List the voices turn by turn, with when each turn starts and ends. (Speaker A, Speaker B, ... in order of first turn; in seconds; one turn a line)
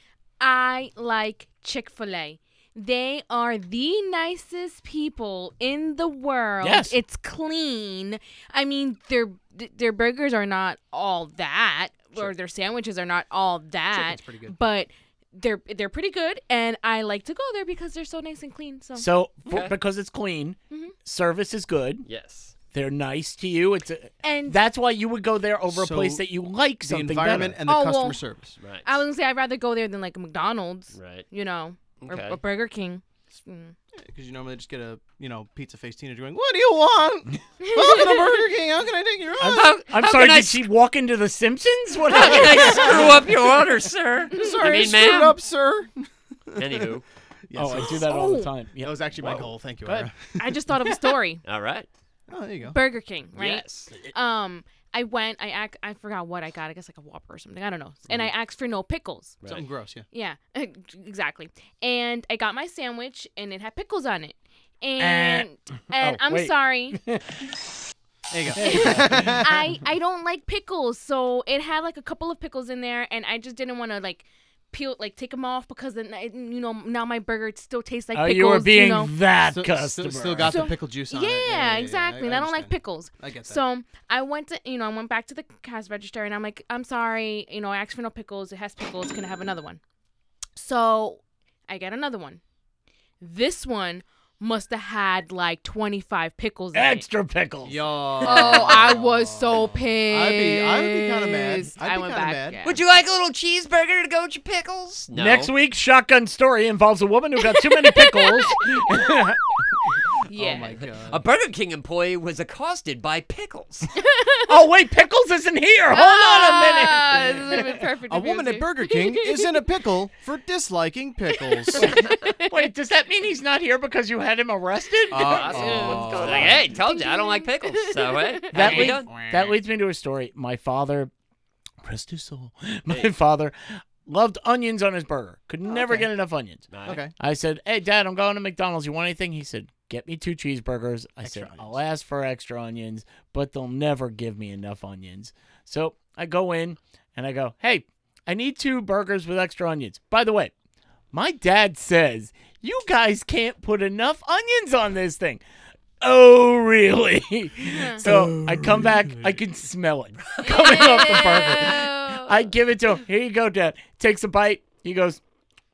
Speaker A: 0.4-19.1
Speaker B: 6.6-7.0
Speaker C: 13.9-14.6
Speaker B: 19.0-22.1
Speaker D: 19.5-19.7
Speaker D: 22.1-22.5
Speaker B: 22.7-27.6
Speaker A: 24.2-24.6
Speaker C: 25.7-26.2
Speaker C: 26.8-28.6
Speaker A: 27.7-28.2
Speaker D: 28.6-28.9
Speaker A: 28.9-33.7
Speaker D: 30.9-31.3
Speaker D: 32.0-32.4
Speaker C: 33.9-39.7
Speaker A: 37.6-38.4
Speaker B: 39.4-43.2
Speaker D: 39.4-40.7
Speaker D: 42.1-45.4
Speaker C: 42.7-43.1
Speaker C: 44.3-46.9
Speaker A: 44.3-45.2
Speaker D: 46.6-47.0
Speaker C: 47.5-48.1
Speaker B: 47.5-50.1
Speaker A: 48.0-48.5
Speaker C: 48.8-50.7
Speaker A: 50.4-51.4
Speaker D: 51.5-51.9
Speaker C: 52.3-52.8
Speaker A: 52.7-59.4
Speaker D: 53.4-53.9
Speaker C: 59.5-60.1
Speaker A: 60.1-67.0
Speaker B: 65.0-67.4
Speaker C: 68.3-69.6
Speaker B: 68.5-69.5
Speaker A: 68.6-79.2
Speaker B: 78.1-80.7
Speaker C: 79.5-83.6
Speaker A: 80.4-89.8
Speaker A: 90.6-92.4
Speaker A: 93.2-97.0
Speaker B: 96.7-98.4
Speaker C: 97.6-102.6
Speaker A: 98.2-102.8
Speaker D: 102.7-105.5
Speaker B: 105.1-109.4
Speaker A: 107.4-108.5
Speaker A: 110.3-110.8
Speaker C: 110.3-111.2
Speaker D: 111.1-113.9
Speaker A: 114.0-114.5
Speaker B: 114.5-117.7
Speaker A: 115.9-119.6
Speaker C: 118.1-122.0
Speaker A: 121.5-122.4
Speaker B: 121.8-126.6
Speaker C: 125.1-126.6
Speaker D: 125.2-129.1
Speaker A: 125.4-128.9
Speaker B: 128.5-131.1
Speaker C: 128.6-129.6
Speaker B: 131.8-136.7
Speaker C: 135.7-136.1
Speaker D: 136.7-137.0
Speaker C: 136.8-137.1
Speaker B: 137.2-150.5
Speaker C: 141.2-141.8
Speaker B: 151.1-155.4
Speaker B: 156.0-165.2
Speaker A: 157.7-158.0
Speaker C: 158.0-159.4
Speaker D: 160.4-161.6
Speaker A: 160.4-162.5